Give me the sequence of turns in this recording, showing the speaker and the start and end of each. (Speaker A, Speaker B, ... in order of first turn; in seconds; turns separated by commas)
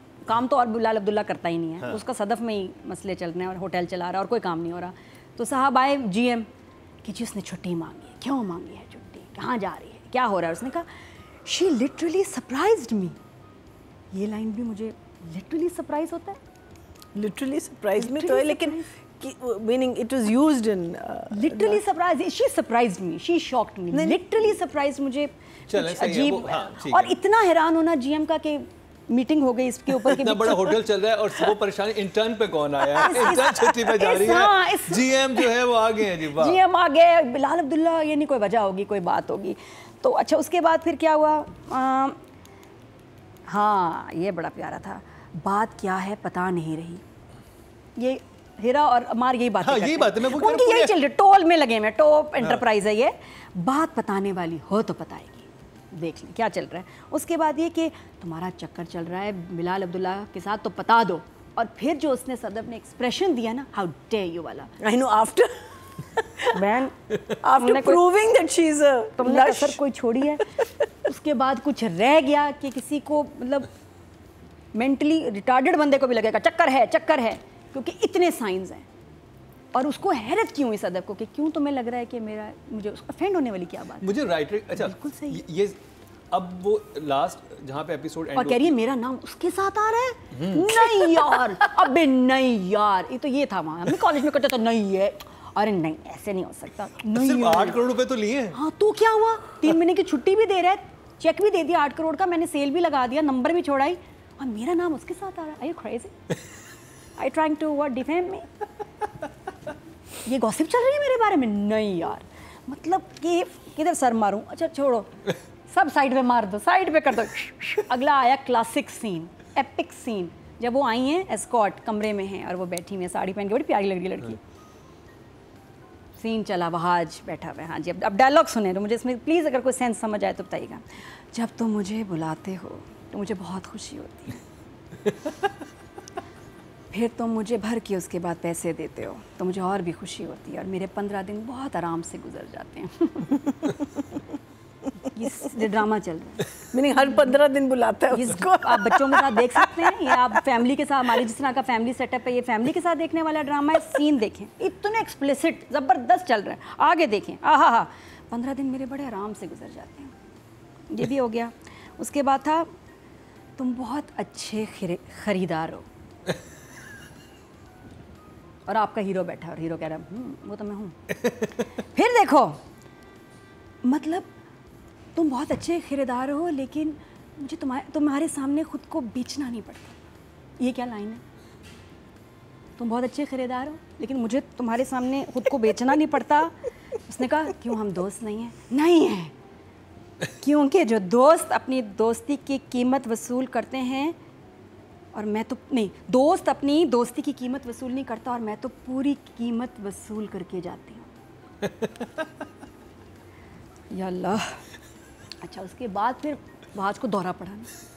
Speaker A: 0.2-6.5, Speaker A: 7.0-10.9, Speaker A: 11.4-13.2, Speaker A: 14.1-16.4, Speaker B: 17.1-21.8, Speaker A: 18.0-18.8, Speaker A: 21.3-30.8, Speaker B: 23.9-24.4, Speaker C: 25.7-27.2, Speaker C: 30.0-36.6, Speaker A: 33.0-35.4, Speaker B: 33.0-33.3, Speaker A: 36.2-42.2, Speaker A: 43.5-47.0, Speaker A: 48.0-64.7, Speaker C: 49.6-50.9, Speaker B: 64.8-66.6, Speaker A: 66.5-66.9, Speaker B: 67.4-69.8, Speaker A: 67.5-68.0, Speaker A: 69.2-70.5, Speaker A: 71.0-73.7, Speaker A: 74.7-78.8, Speaker A: 79.7-84.2, Speaker C: 84.0-85.8, Speaker A: 84.8-85.4, Speaker C: 86.3-88.8, Speaker A: 88.3-97.8, Speaker C: 90.3-90.8, Speaker C: 97.1-98.6, Speaker A: 98.5-106.1, Speaker A: 107.2-108.5, Speaker A: 110.2-124.4, Speaker A: 126.2-134.4, Speaker A: 136.9-143.8, Speaker A: 145.0-146.5, Speaker B: 146.7-150.4, Speaker A: 148.1-160.1, Speaker A: 160.9-162.7, Speaker A: 163.6-165.9, Speaker A: 168.7-172.6, Speaker A: 173.8-174.3, Speaker A: 175.1-180.0, Speaker A: 180.6-181.2, Speaker A: 182.8-189.3, Speaker A: 190.4-194.2, Speaker A: 195.1-201.1, Speaker C: 201.6-202.1, Speaker A: 203.9-204.6, Speaker A: 205.4-207.7